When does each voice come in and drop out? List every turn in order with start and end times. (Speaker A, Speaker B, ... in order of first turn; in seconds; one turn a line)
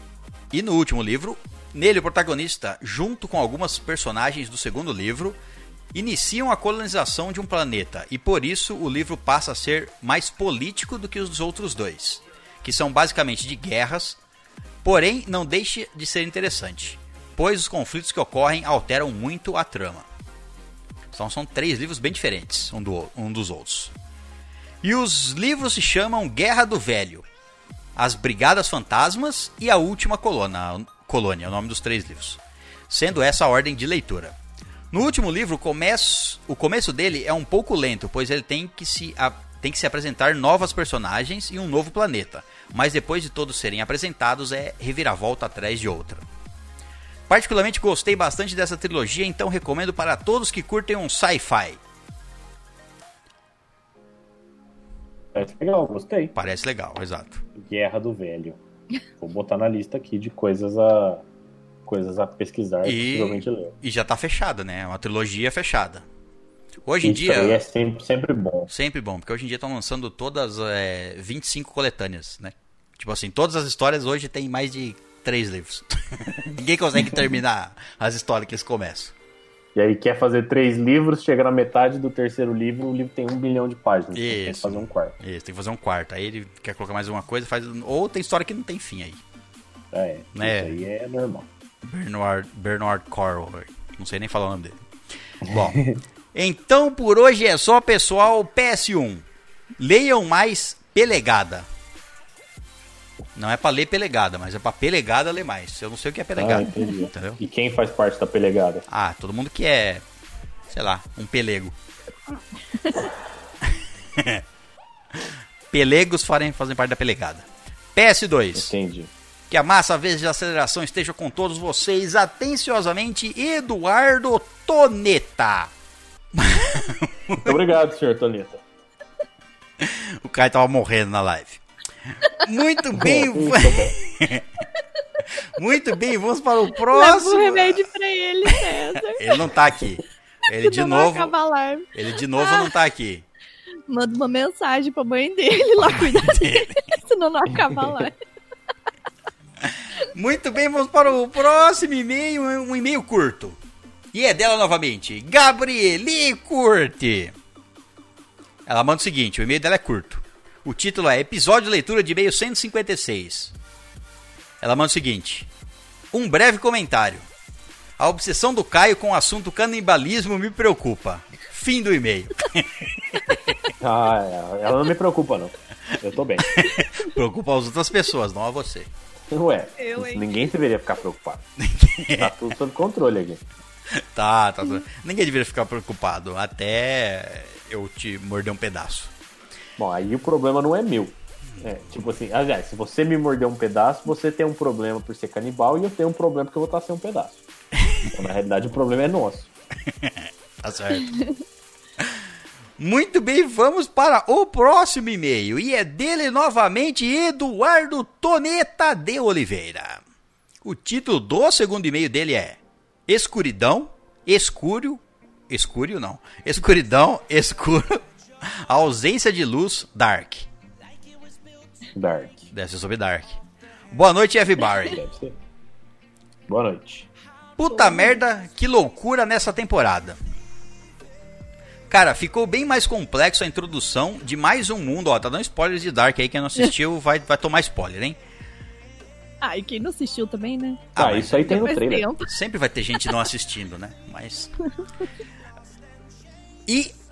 Speaker A: 0.5-5.4
Speaker A: 5.9-14.2
Speaker A: 14.8-20.1
Speaker A: 21.1-23.9
Speaker A: 24.8-27.3
Speaker A: 28.0-34.4
Speaker A: 34.9-46.3
Speaker A: 47.3-51.8
Speaker B: 55.3-56.4
Speaker A: 56.4-57.4
Speaker B: 57.5-58.6
Speaker B: 59.2-61.2
Speaker B: 61.9-63.7
Speaker A: 62.8-66.1
Speaker A: 66.8-67.6
Speaker B: 67.0-68.7
Speaker A: 68.7-79.1
Speaker B: 79.8-85.2
Speaker A: 84.1-89.2
Speaker B: 89.9-91.5
Speaker A: 90.3-90.8
Speaker A: 91.8-94.8
Speaker A: 95.4-95.8
Speaker B: 95.5-96.0
Speaker A: 96.3-99.2
Speaker A: 99.8-101.7
Speaker A: 103.3-107.4
Speaker B: 106.4-108.9
Speaker A: 108.9-110.0
Speaker A: 110.7-111.8
Speaker C: 112.7-113.1
Speaker A: 113.6-114.4
Speaker A: 115.1-118.7
Speaker B: 118.5-119.1
Speaker A: 119.5-125.7
Speaker A: 126.3-127.6
Speaker B: 127.4-128.6
Speaker A: 129.8-134.6
Speaker B: 132.9-134.0
Speaker A: 135.4-137.8
Speaker C: 136.9-139.5
Speaker A: 138.5-141.3
Speaker C: 140.5-142.7
Speaker A: 141.9-143.2
Speaker C: 143.9-148.2
Speaker A: 145.9-146.8
Speaker A: 149.6-153.6
Speaker A: 154.1-157.3
Speaker A: 158.7-163.5
Speaker A: 164.6-165.5
Speaker A: 166.1-167.3
Speaker A: 168.0-173.6
Speaker B: 173.8-176.7
Speaker A: 176.4-178.9
Speaker B: 179.3-181.4
Speaker C: 179.8-180.5
Speaker A: 181.6-182.3
Speaker B: 182.2-183.4
Speaker A: 183.9-189.1
Speaker B: 189.8-197.4
Speaker A: 197.8-198.1
Speaker B: 198.1-199.5
Speaker A: 199.8-201.2
Speaker C: 201.1-201.3
Speaker A: 202.0-202.2
Speaker A: 202.8-210.0
Speaker A: 210.6-220.5
Speaker B: 221.9-222.5
Speaker A: 222.5-223.4
Speaker A: 223.9-225.0
Speaker B: 224.9-225.4
Speaker B: 226.5-227.1
Speaker A: 227.6-230.2
Speaker C: 227.8-228.2
Speaker A: 231.9-238.2
Speaker C: 239.4-242.3
Speaker A: 240.9-241.6
Speaker B: 241.0-242.1
Speaker A: 242.2-244.5
Speaker A: 246.7-246.9